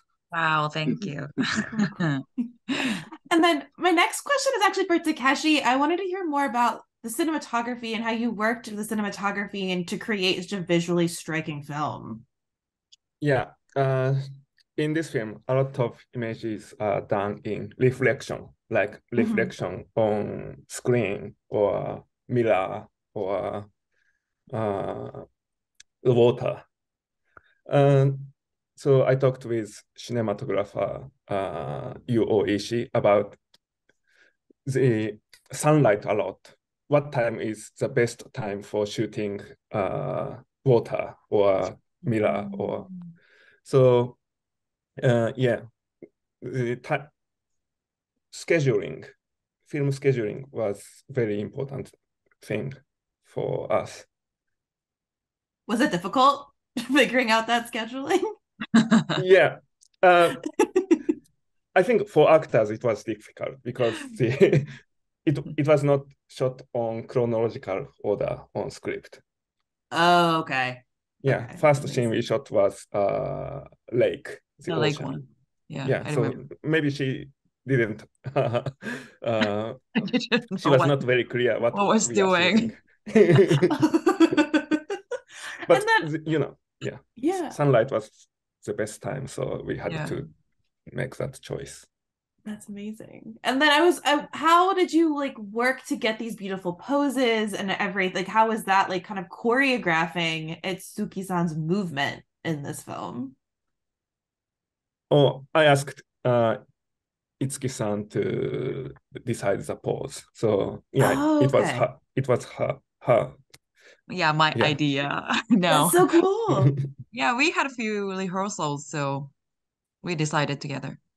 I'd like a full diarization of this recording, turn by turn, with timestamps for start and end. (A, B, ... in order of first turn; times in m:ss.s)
0:00.3-0:03.0 A
0:03.3-0:12.2 B
0:13.2-0:14.2 C
0:14.8-0:23.7 C
0:19.2-0:19.5 B
0:24.5-0:25.2 C
0:26.0-0:26.6 C
0:27.7-0:33.4 C
0:34.6-0:42.9 C
0:43.6-0:44.2 C
0:45.0-0:45.6 C
0:46.4-0:47.1 C
0:48.3-0:49.0 C
0:49.7-0:54.1 C
0:55.7-0:58.2 B
0:59.1-1:00.4 C
1:01.7-1:09.2 C
1:09.9-1:12.0 B
1:11.2-1:15.2 C
1:14.7-1:16.4 A
1:15.8-1:20.1 C
1:20.0-1:21.0 A
1:20.6-1:23.7 C
1:21.7-1:22.7 A
1:23.7-1:24.8 B
1:25.7-1:30.3 C
1:25.7-1:26.1 B
1:27.2-1:27.6 B
1:29.9-1:30.2 A
1:30.9-1:31.9 C
1:32.4-1:43.3 B
1:45.1-1:46.6 C
1:47.4-1:53.4 C
1:51.0-1:51.9 B
1:54.1-1:56.1 A
1:55.7-1:56.7 B
1:57.1-1:59.3 A
2:00.0-2:01.0 A